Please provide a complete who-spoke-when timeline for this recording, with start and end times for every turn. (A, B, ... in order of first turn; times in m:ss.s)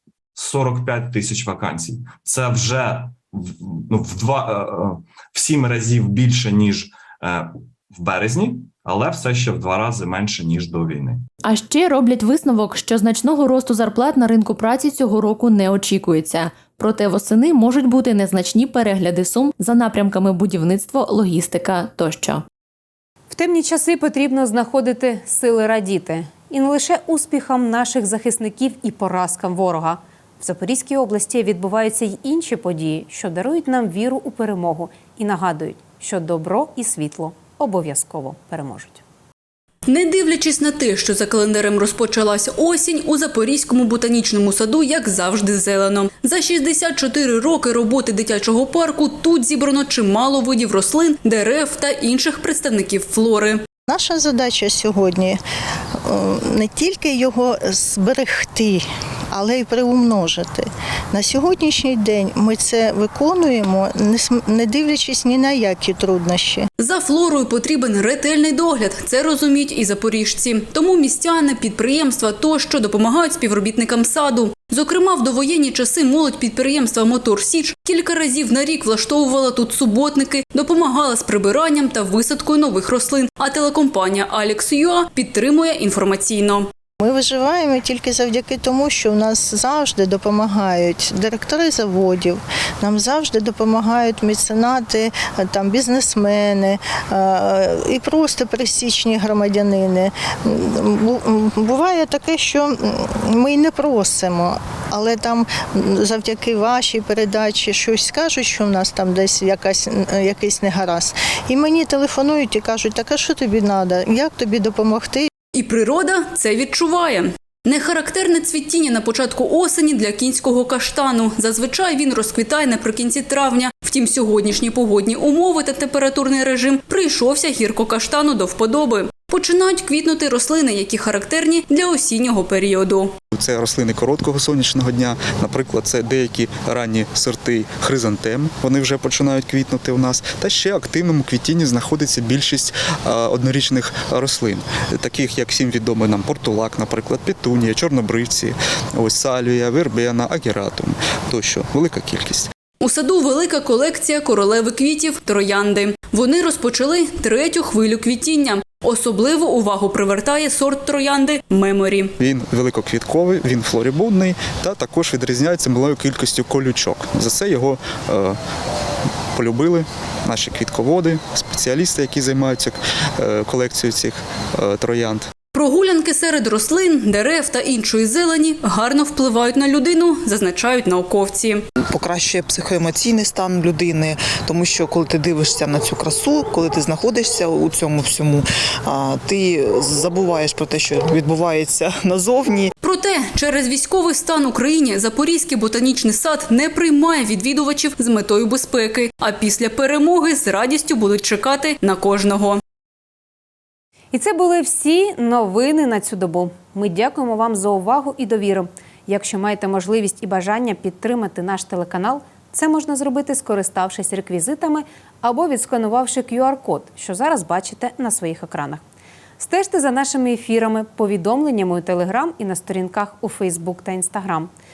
0:00.4-0:11.2 A
0:11.4-0:22.4 B
0:23.3-0:39.0 C
0:39.9-0:53.6 D
0:53.9-0:55.4 E
0:56.0-0:58.8 E
0:59.3-1:06.6 E
1:06.8-1:26.7 D
1:27.0-1:55.3 E
1:55.5-2:13.1 D
2:13.3-2:32.5 F
2:32.8-2:42.1 D
2:42.2-2:48.4 F
2:49.3-2:55.3 F
2:55.5-3:01.6 D
3:01.9-3:12.7 G
3:12.8-3:22.6 D
3:24.1-3:38.8 C
3:39.4-3:44.5 C